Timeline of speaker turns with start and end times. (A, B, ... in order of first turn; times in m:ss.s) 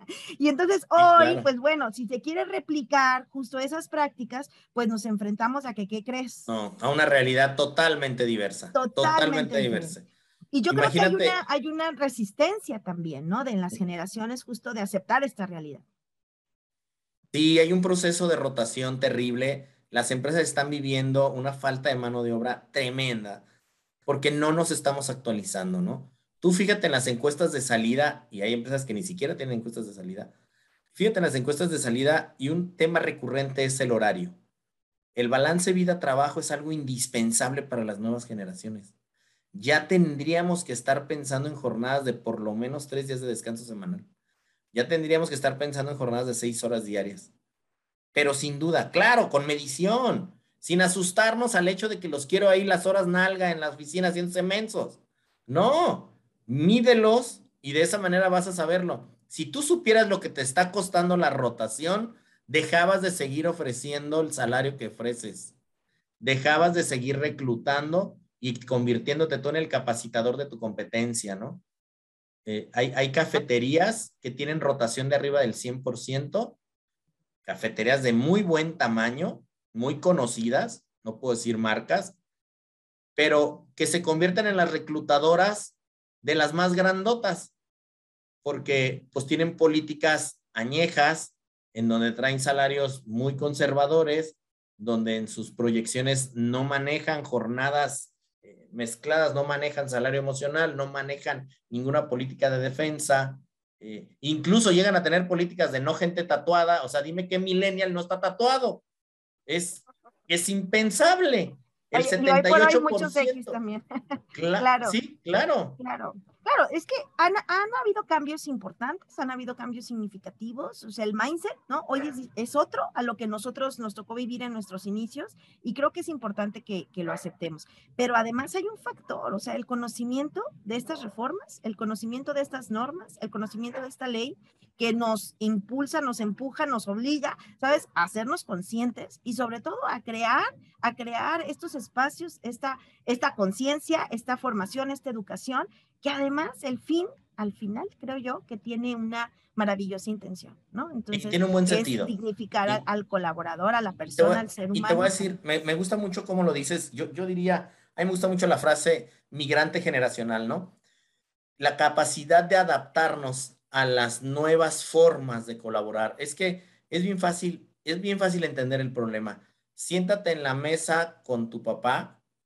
0:00.4-0:06.5 A
0:01.0-0:01.5 B
0:06.5-0:10.1 B
0:08.7-0:10.0 A
0:10.5-0:15.8 A
0:10.7-0:11.4 B
0:17.3-0:23.4 B
0:24.0-0:30.3 B
0:30.9-0:34.4 B
0:35.2-0:38.9 B
0:39.5-0:44.1 B
0:44.7-0:47.3 B
0:48.1-1:05.5 B
1:06.2-1:11.6 B
1:12.4-1:16.6 B
1:17.4-1:22.2 B
1:23.2-1:27.5 B
1:28.4-1:48.8 B
1:49.5-1:53.6 B
1:51.9-1:53.8 A
1:54.3-1:55.8 B
1:54.6-1:55.0 A
1:55.8-2:35.2 A
2:31.1-2:32.8 B
2:34.2-2:40.8 B
2:41.6-2:52.2 B